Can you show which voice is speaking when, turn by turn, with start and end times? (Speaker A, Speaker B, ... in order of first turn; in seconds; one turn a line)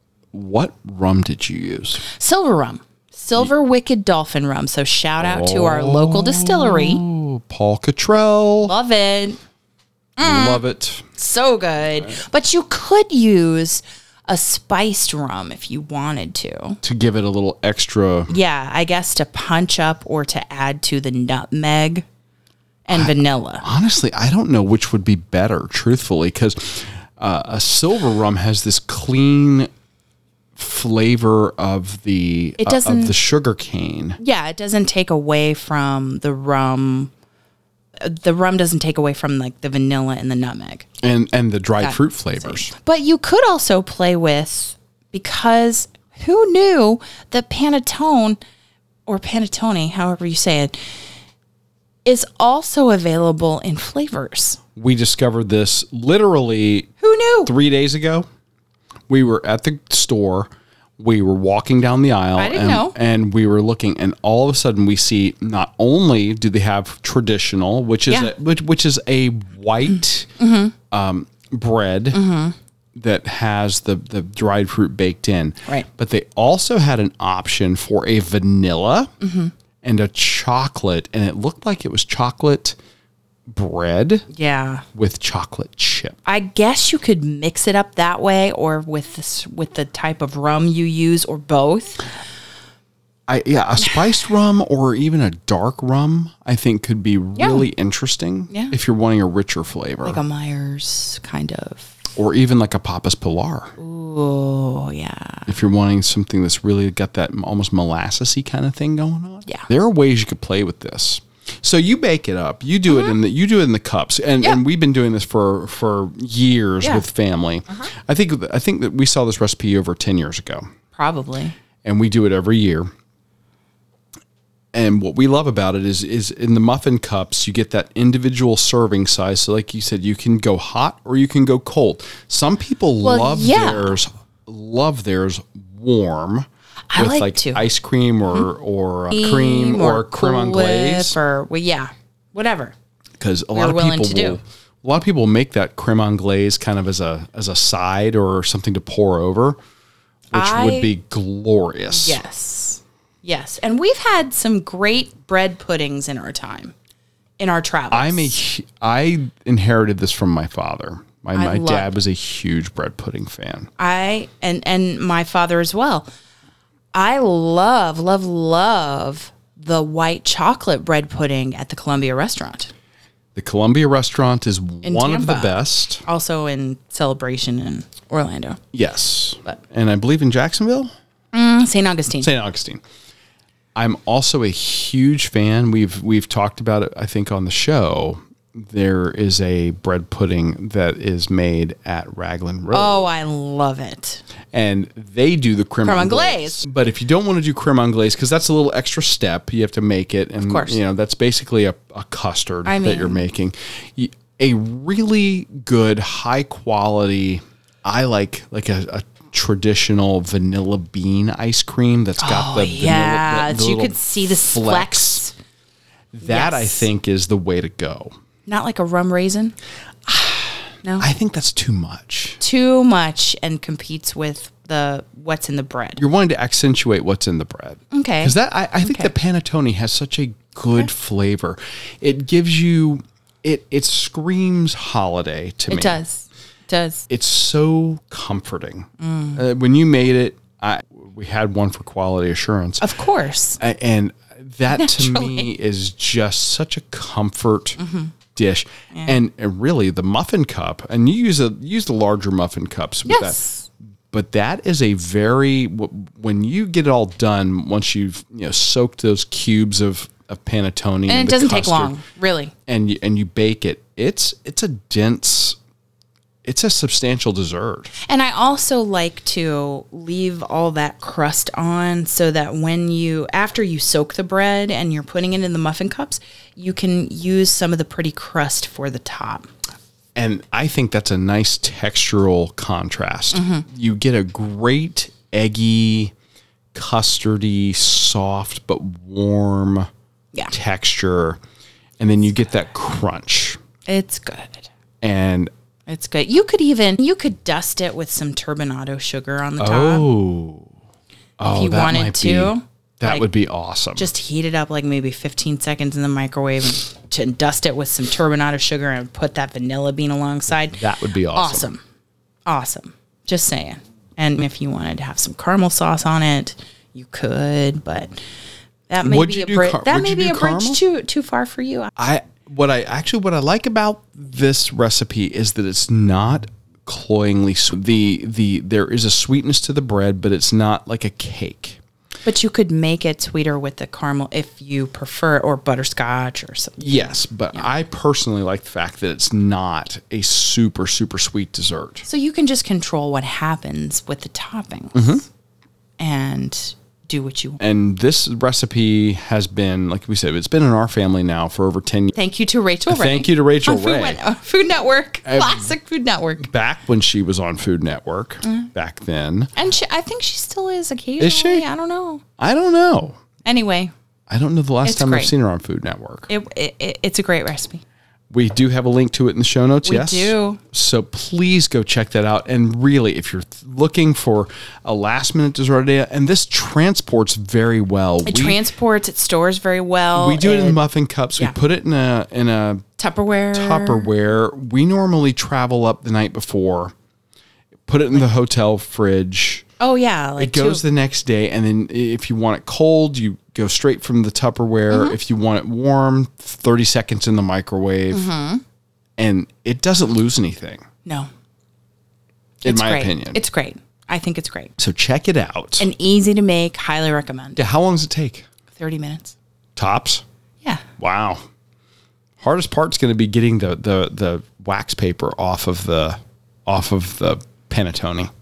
Speaker A: 0.3-2.0
Speaker B: 2.0-7.0
Speaker A: 5.2-8.7
Speaker B: 8.6-9.4
Speaker B: 10.2-10.6
Speaker A: 10.2-11.1
Speaker B: 11.2-16.8
Speaker A: 16.8-18.3
Speaker B: 18.3-22.1
Speaker B: 22.9-23.6
Speaker A: 22.9-29.7
Speaker A: 30.6-34.2
Speaker B: 32.6-33.1
Speaker B: 34.2-37.1
Speaker B: 38.0-40.9
Speaker A: 41.0-42.7
Speaker B: 41.8-48.4
Speaker B: 49.1-50.8
Speaker B: 52.0-54.6
Speaker A: 54.8-56.9
Speaker B: 57.0-57.5
Speaker A: 57.5-58.3
Speaker A: 59.1-70.3
Speaker B: 62.4-63.0
Speaker B: 70.4-70.7
Speaker A: 70.9-72.2
Speaker B: 72.1-72.5
Speaker A: 73.0-79.1
Speaker B: 79.2-79.5
Speaker A: 79.8-82.8
Speaker A: 83.5-84.3
Speaker B: 84.3-84.8
Speaker A: 84.9-86.2
Speaker B: 86.3-92.1
Speaker A: 93.3-100.2
Speaker B: 97.4-97.6
Speaker B: 100.0-102.0
Speaker A: 102.2-103.8
Speaker B: 103.8-105.5
Speaker A: 105.5-120.7
Speaker B: 112.9-113.1
Speaker B: 121.0-121.5
Speaker A: 121.8-122.9
Speaker A: 124.7-141.2
Speaker B: 133.0-133.9
Speaker B: 136.9-137.6
Speaker B: 139.1-142.8
Speaker A: 143.2-149.6
Speaker B: 143.5-144.4
Speaker A: 150.3-152.2
Speaker B: 150.3-150.9
Speaker B: 151.9-156.7
Speaker B: 157.4-158.4
Speaker A: 157.9-163.7
Speaker B: 161.3-161.9
Speaker B: 163.8-166.1
Speaker B: 166.9-172.7
Speaker A: 173.3-176.0
Speaker B: 174.8-178.6
Speaker A: 178.7-180.9
Speaker B: 181.3-182.3
Speaker A: 182.2-182.8
Speaker A: 183.8-193.1
Speaker B: 192.7-194.2
Speaker A: 194.5-215.2
Speaker B: 195.8-196.6
Speaker B: 200.4-200.8
Speaker B: 202.7-203.2
Speaker B: 212.2-215.3
Speaker A: 216.1-218.1
Speaker B: 216.2-216.9
Speaker B: 218.5-219.6
Speaker A: 220.1-222.4
Speaker B: 222.4-226.0
Speaker A: 226.0-236.0
Speaker B: 227.9-229.1
Speaker B: 235.7-237.1
Speaker A: 237.1-242.9
Speaker B: 239.0-239.4
Speaker B: 242.8-243.6
Speaker A: 243.6-247.8
Speaker B: 244.7-245.5
Speaker B: 247.8-248.1
Speaker A: 248.3-253.4
Speaker B: 253.1-253.7
Speaker A: 254.1-261.9
Speaker B: 261.1-262.5
Speaker A: 262.7-265.6
Speaker A: 266.4-267.9
Speaker B: 268.0-279.5
Speaker A: 280.1-286.1
Speaker B: 283.3-283.6
Speaker A: 286.7-289.9
Speaker A: 290.5-291.4
Speaker A: 292.0-293.6
Speaker B: 293.9-294.7
Speaker A: 295.0-295.5
Speaker B: 295.9-300.1
Speaker A: 299.6-300.7
Speaker A: 301.4-304.1
Speaker B: 301.5-303.2
Speaker B: 304.0-310.8
Speaker A: 310.5-311.7
Speaker B: 311.3-311.8
Speaker B: 312.5-318.2
Speaker B: 318.9-321.9
Speaker A: 319.0-320.8
Speaker A: 322.0-331.8
Speaker B: 332.2-337.6
Speaker A: 336.8-342.1
Speaker B: 342.1-345.2
Speaker A: 344.9-345.2
Speaker B: 346.0-347.6
Speaker A: 347.6-352.2
Speaker B: 352.1-356.4
Speaker A: 352.9-354.2
Speaker A: 355.3-355.7
Speaker A: 356.4-359.5
Speaker B: 358.4-358.7
Speaker B: 359.6-362.2
Speaker A: 361.2-361.7
Speaker A: 362.4-363.2
Speaker B: 363.4-363.9
Speaker A: 364.3-366.3
Speaker B: 364.8-365.3
Speaker B: 366.3-367.8
Speaker A: 368.3-378.6
Speaker B: 369.9-370.6
Speaker B: 378.2-380.8
Speaker A: 380.1-382.9
Speaker B: 383.0-384.1
Speaker A: 383.5-386.9
Speaker A: 387.9-389.7
Speaker B: 389.8-390.8
Speaker A: 390.4-398.3
Speaker B: 394.9-395.2
Speaker B: 398.1-398.6
Speaker A: 399.2-400.9
Speaker B: 401.1-401.3
Speaker B: 402.6-404.7
Speaker A: 402.6-403.4
Speaker A: 404.8-405.9
Speaker B: 405.8-407.6
Speaker A: 407.6-408.5
Speaker B: 408.8-409.4
Speaker A: 409.8-410.2
Speaker A: 411.0-411.4
Speaker A: 412.4-418.3